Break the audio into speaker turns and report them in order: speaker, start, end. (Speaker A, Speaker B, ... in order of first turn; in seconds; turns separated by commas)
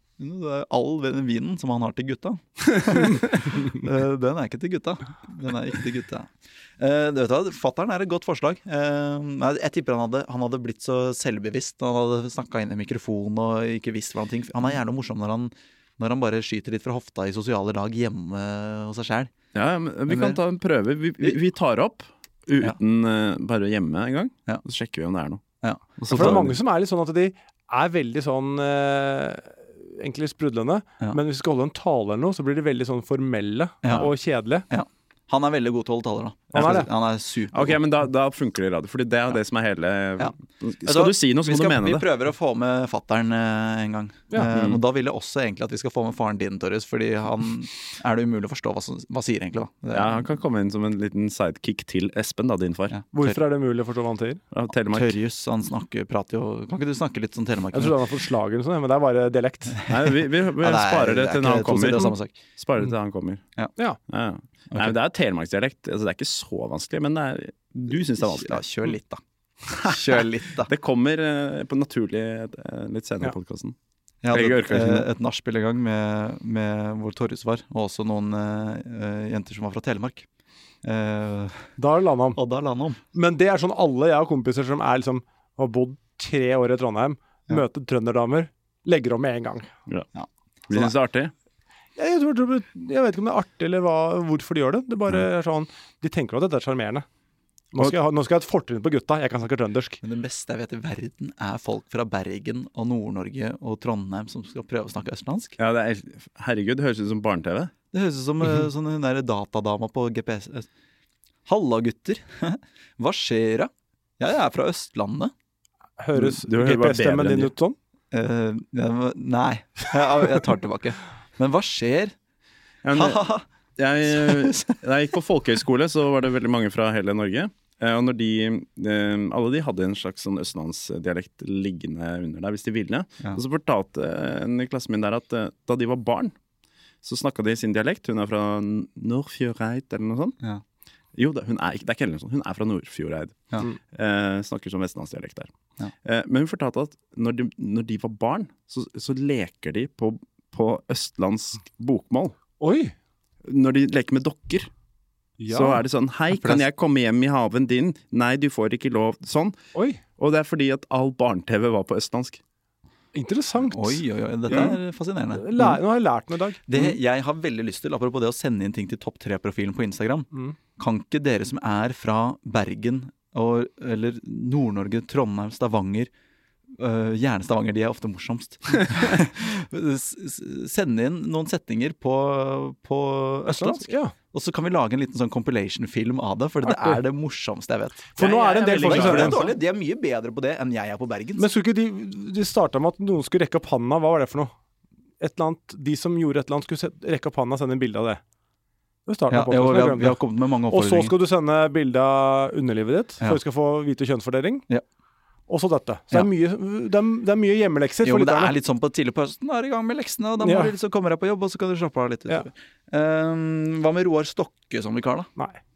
Speaker A: 0.2-19.3, Speaker B: 19.5-25.4, Speaker A: 20.1-20.4, Speaker A: 25.6-26.4, Speaker B: 26.0-26.6, Speaker C: 26.1-34.6, Speaker A: 33.8-34.1, Speaker A: 34.7-37.8, Speaker B: 36.5-36.9, Speaker C: 36.5-36.9, Speaker B: 37.5-42.0, Speaker A: 40.2-50.2, Speaker B: 44.5-44.8, Speaker B: 49.9-53.0, Speaker A: 52.9-53.4, Speaker C: 53.1-54.4, Speaker B: 54.5-55.1, Speaker A: 54.9-58.0, Speaker C: 57.7-59.8, Speaker B: 59.9-63.4, Speaker A: 60.6-62.4, Speaker B: 64.1-68.6, Speaker A: 68.2-69.2, Speaker B: 69.7-73.7, Speaker A: 69.7-70.7, Speaker A: 74.2-80.3, Speaker B: 74.3-75.1, Speaker A: 80.8-81.7, Speaker C: 81.8-82.4, Speaker A: 82.3-83.0, Speaker C: 83.1-89.7, Speaker A: 90.1-90.9, Speaker B: 90.7-91.3, Speaker C: 92.0-97.0, Speaker C: 97.7-100.0, Speaker A: 100.0-105.6, Speaker B: 105.6-107.7, Speaker A: 107.9-110.7, Speaker A: 111.5-115.3, Speaker C: 116.0-117.8, Speaker B: 116.1-117.5, Speaker A: 118.1-122.1, Speaker B: 122.8-136.3, Speaker A: 122.9-123.4, Speaker A: 124.1-124.8, Speaker B: 137.0-140.4, Speaker B: 141.1-145.5, Speaker B: 146.0-152.3, Speaker C: 152.6-152.9, Speaker B: 153.4-154.7, Speaker C: 155.4-155.8, Speaker B: 155.5-159.6, Speaker A: 156.3-156.6, Speaker C: 159.7-160.0, Speaker B: 160.2-162.4, Speaker C: 163.1-164.7, Speaker A: 163.7-165.8, Speaker C: 165.3-166.7, Speaker A: 166.7-176.1, Speaker A: 176.7-191.5, Speaker C: 183.5-184.1, Speaker C: 186.7-187.0, Speaker C: 188.2-189.5, Speaker B: 188.2-189.4, Speaker C: 191.4-194.5, Speaker C: 195.2-198.2, Speaker C: 199.1-204.7, Speaker A: 199.3-201.1, Speaker C: 205.5-208.6, Speaker A: 208.0-215.3, Speaker C: 210.4-210.7